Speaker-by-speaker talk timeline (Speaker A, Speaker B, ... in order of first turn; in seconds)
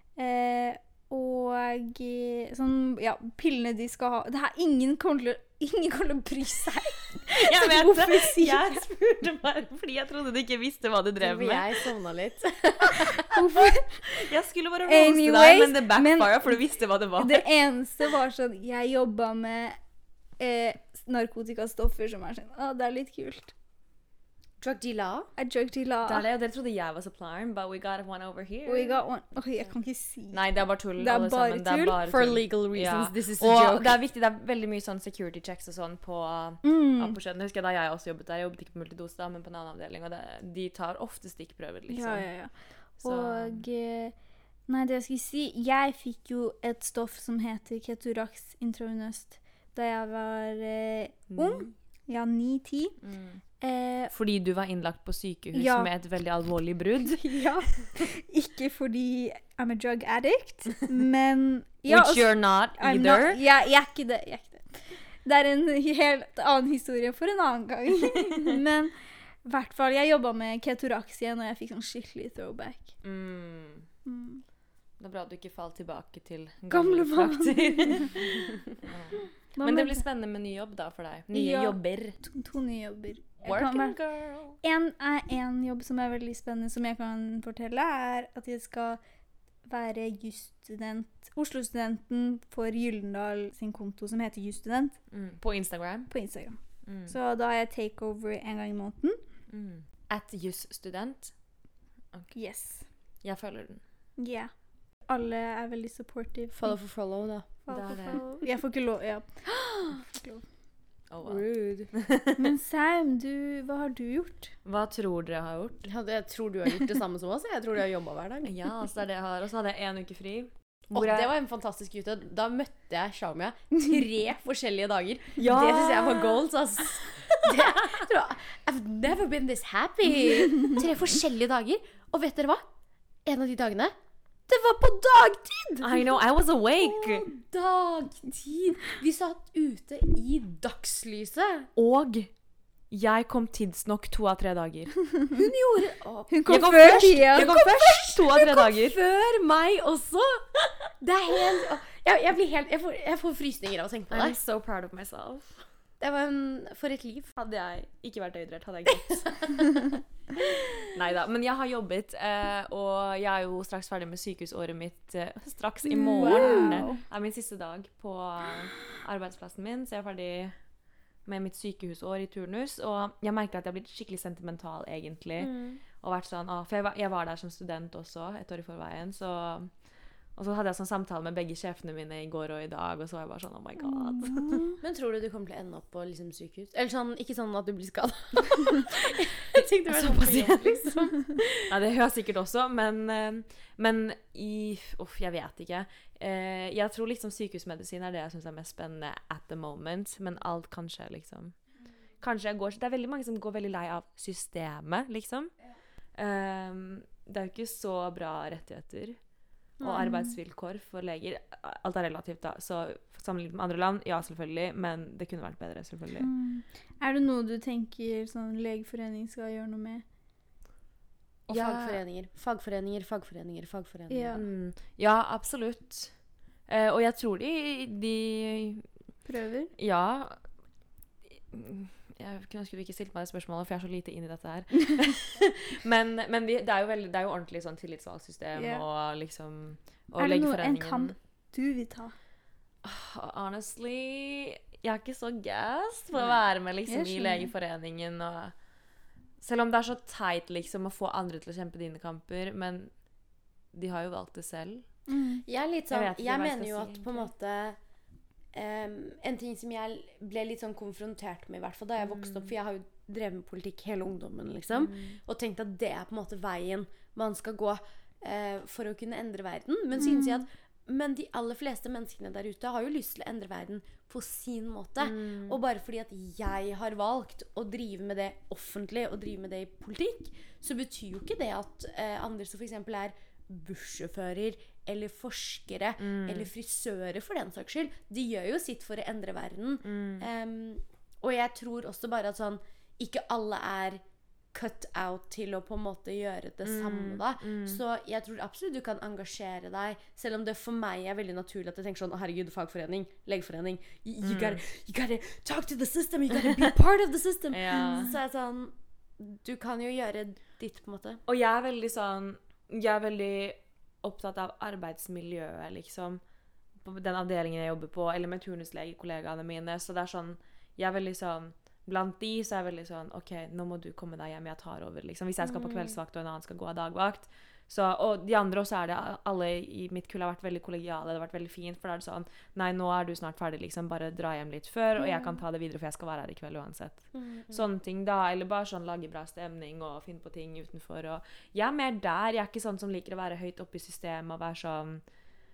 Speaker A: 0.2-8.8, 13.4-14.3, 14.9-16.6, 17.2-19.8, 20.4-23.5, 25.4-26.3, 28.7-32.0, 36.6-37.2, 41.9-44.1, 44.7-53.0, 53.6-54.1, 55.5-55.9, 57.1-72.9, 74.1-74.4, 76.7-78.5, 79.5-80.0, 81.3-84.0, 84.6-89.0, 89.7-95.0, 96.1-99.2, 102.3-102.9, 104.2-104.5, 105.1-106.8, 107.7-110.4, 112.4-114.5, 146.3-147.7, 165.8-167.0, 183.8-184.8, 209.8-210.4, 216.2-220.0, 224.1-224.4, 229.3-229.7, 238.6-238.8, 240.2-242.2, 246.9-247.5, 255.1-255.4, 270.0-270.5
Speaker B: 7.3-11.7, 12.9-17.5, 26.0-29.0, 30.3-42.3, 43.0-43.6, 51.3-51.7, 53.0-53.4, 54.1-57.8, 61.9-63.4, 73.0-73.9, 75.0-82.2, 83.4-84.6, 95.1-96.1, 96.8-97.2, 99.5-101.3, 103.2-103.8, 107.7-108.2, 111.1-112.5, 114.7-115.9, 118.5-121.3, 125.4-126.4, 127.4-128.1, 135.8-137.3, 141.8-142.3, 142.9-144.9, 146.5-149.0, 154.1-155.7, 157.4-160.0, 160.8-170.6, 171.2-179.7, 180.3-184.6, 189.9-201.6, 202.2-205.5, 206.2-209.2, 209.8-216.3, 221.5-222.0, 224.3-226.2, 226.7-228.9, 229.8-230.4, 231.4-241.1, 242.8-248.6, 249.4-252.9, 253.7-254.9, 255.9-257.3, 262.0-262.5, 264.7-265.2, 275.0-275.6, 286.0-286.5, 289.8-290.3, 296.6-297.8, 304.2-304.6, 307.5-308.1, 311.3-316.2, 316.8-345.0
Speaker C: 11.2-13.4, 24.6-25.3, 32.1-34.0, 106.5-107.5, 108.0-108.3, 111.2-111.9, 115.8-118.5, 120.9-132.6, 133.2-133.9, 134.5-136.2, 136.8-141.7, 145.3-154.4, 156.0-157.3, 159.1-159.6, 166.2-166.9, 184.8-191.5, 221.5-224.4, 255.5-257.8, 258.5-311.2, 325.4-326.0, 335.0-335.4, 337.1-337.6